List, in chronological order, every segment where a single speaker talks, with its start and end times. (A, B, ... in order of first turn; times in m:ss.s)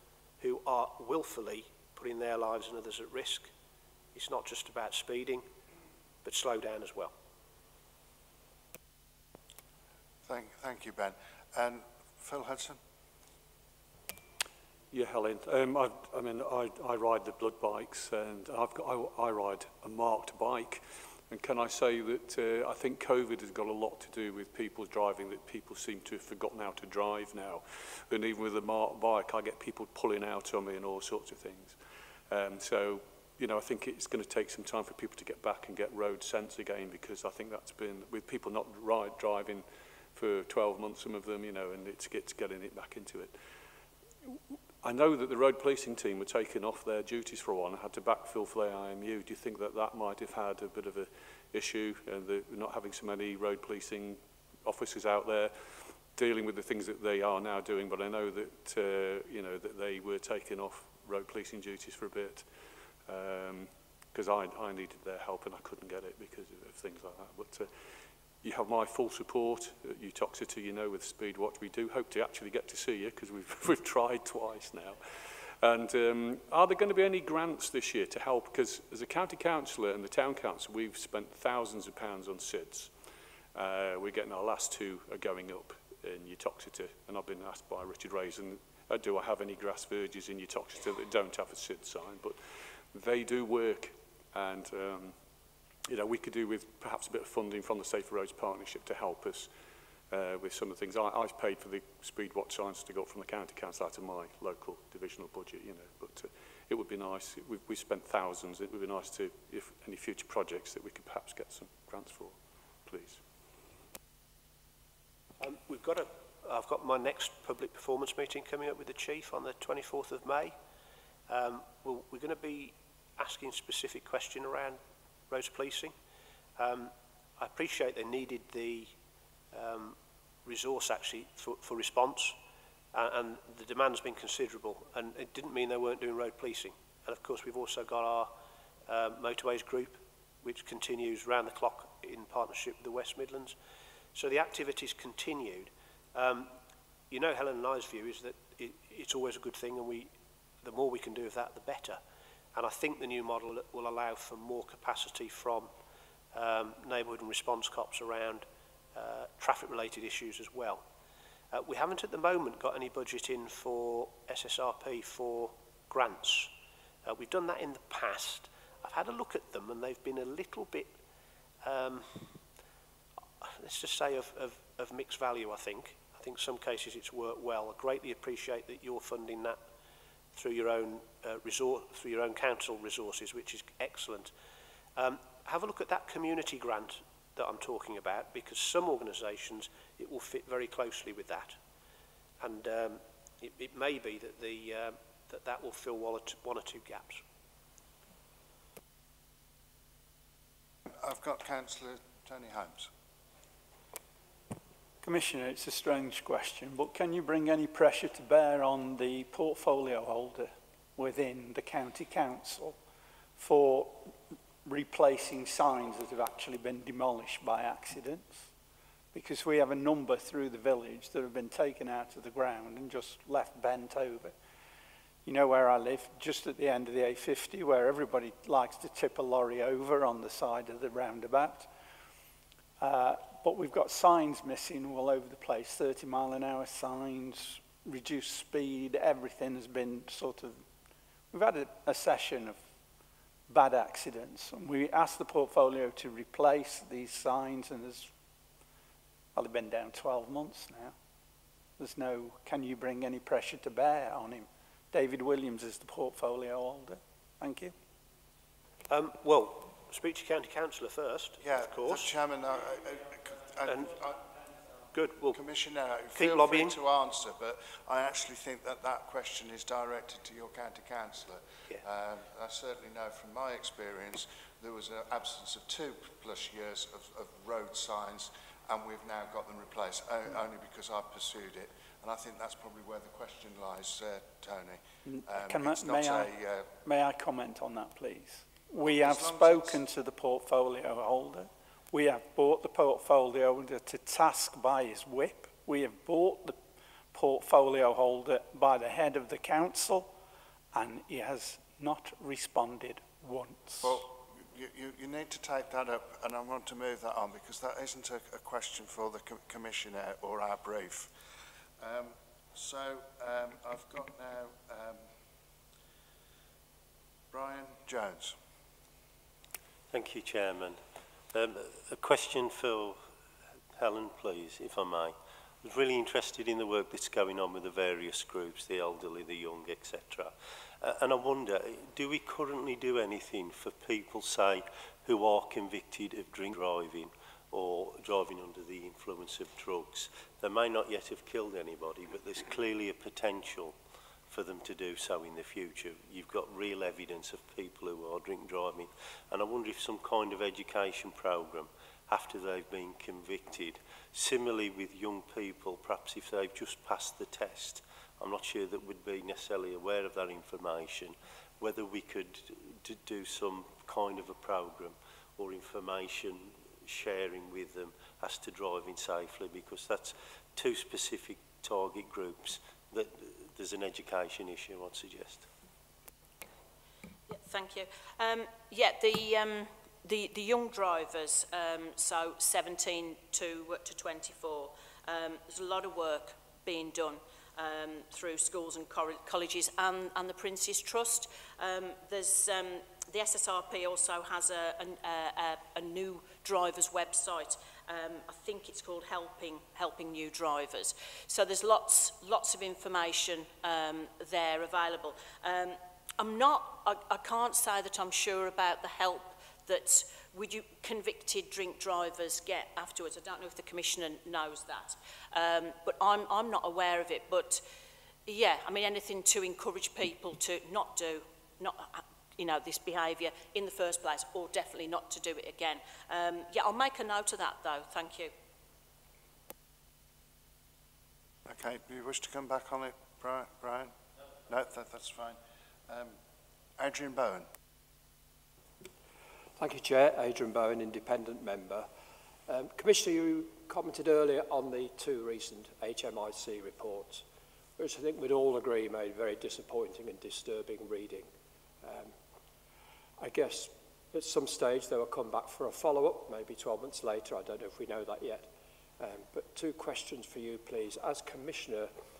0:00.4-0:03.5 A
0:04.1-0:05.4 A
0:06.2-0:07.1 A
0:10.2-0:12.8 B
0:14.9-0:31.8 C
0:32.3-0:43.3 C
0:44.3-1:02.5 C
1:03.0-1:07.7 C
1:08.4-1:22.9 C
1:23.5-1:35.1 C
1:35.9-1:39.5 C
1:40.1-1:53.2 C
1:55.4-2:00.5 A
2:01.3-2:04.8 A
2:05.3-2:05.9 A
2:06.6-2:08.9 A
2:09.5-2:12.4 A
2:12.9-2:18.3 A
2:18.9-2:23.6 A
2:24.1-2:26.5 A
2:27.1-2:30.1 A
2:30.6-2:32.0 A
2:32.5-2:35.7 A
2:36.3-2:40.8 A
2:41.5-2:46.5 A
2:47.0-2:50.9 A
2:51.6-2:52.4 A
2:53.4-2:59.6 A
3:00.3-3:04.3 A
3:05.0-3:11.6 A
3:12.4-3:17.2 A
3:21.0-3:22.9 B
3:25.0-3:32.8 D
3:33.4-3:38.4 D
3:39.1-3:44.3 D
3:45.2-3:51.7 D
3:52.8-4:00.6 D
4:01.3-4:02.6 D
4:03.5-4:08.1 D
4:09.3-4:10.9 D
4:11.8-4:17.7 D
4:18.9-4:22.1 A
4:21.4-4:24.2 B
4:23.7-4:23.9 A
4:24.9-4:25.4 A
4:25.3-4:46.7 B
4:26.1-4:26.7 A
4:45.0-4:46.3 D
4:46.8-4:56.6 D
4:48.8-4:49.8 B
4:57.1-5:00.1 D
5:00.7-5:04.0 D
5:03.8-5:11.1 B
5:11.8-5:15.1 B
5:17.3-5:18.4 B
5:19.9-5:23.0 E
5:23.8-6:15.5 E
6:17.3-6:57.6 F
6:58.2-7:08.3 F
7:11.4-7:13.9 B
7:14.5-7:16.2 B
7:16.8-7:17.5 B
7:19.6-7:21.9 G
7:22.5-7:27.2 G
7:27.8-7:31.3 G
7:31.8-7:32.2 G
7:33.2-7:41.9 G